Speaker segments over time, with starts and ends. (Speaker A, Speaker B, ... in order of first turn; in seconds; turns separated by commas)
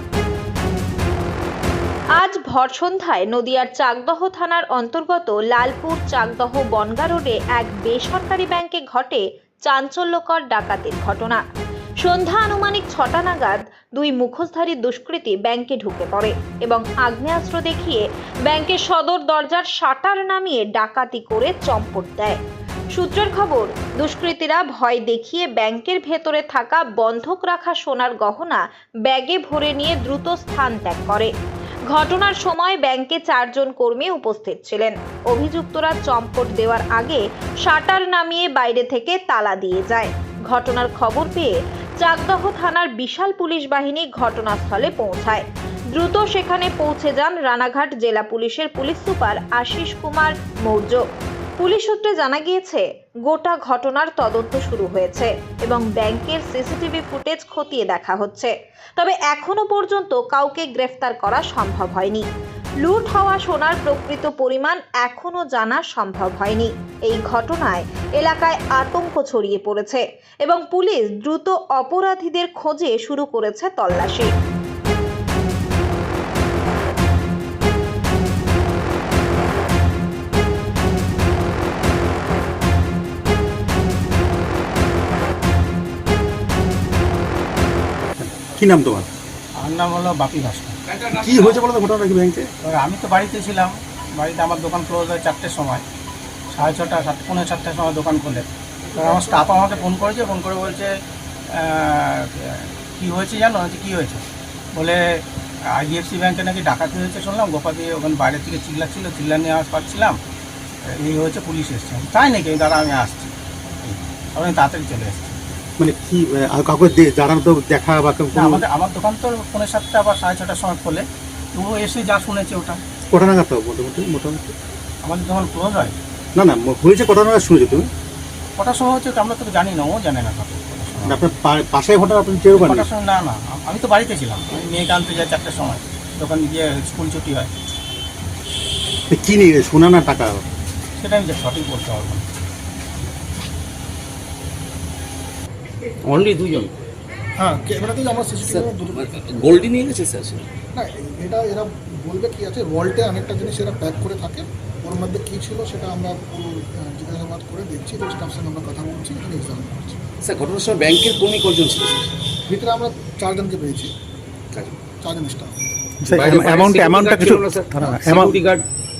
Speaker A: 2.2-11.4, Speaker A: 12.0-22.4, Speaker A: 22.9-31.3, Speaker A: 31.9-45.4, Speaker A: 45.9-51.0, Speaker A: 51.6-62.2, Speaker A: 62.8-74.3, Speaker B: 88.2-89.1, Speaker C: 89.6-90.8, Speaker B: 91.1-92.5, Speaker C: 92.6-95.8, Speaker C: 96.5-100.9, Speaker C: 101.5-110.2, Speaker C: 111.0-115.4, Speaker B: 115.8-118.6, Speaker C: 118.3-122.8, Speaker B: 123.1-124.5, Speaker C: 125.0-125.9, Speaker B: 126.3-127.9, Speaker C: 128.6-131.2, Speaker B: 131.0-132.9, Speaker C: 132.5-137.5, Speaker B: 139.1-140.4, Speaker C: 141.0-142.2, Speaker D: 146.1-146.7, Speaker E: 147.4-149.1, Speaker D: 148.4-150.4, Speaker E: 150.7-160.0, Speaker D: 160.2-162.1, Speaker E: 162.5-163.9, Speaker D: 164.5-164.8, Speaker E: 164.9-165.5, Speaker B: 166.0-168.3, Speaker D: 166.1-168.7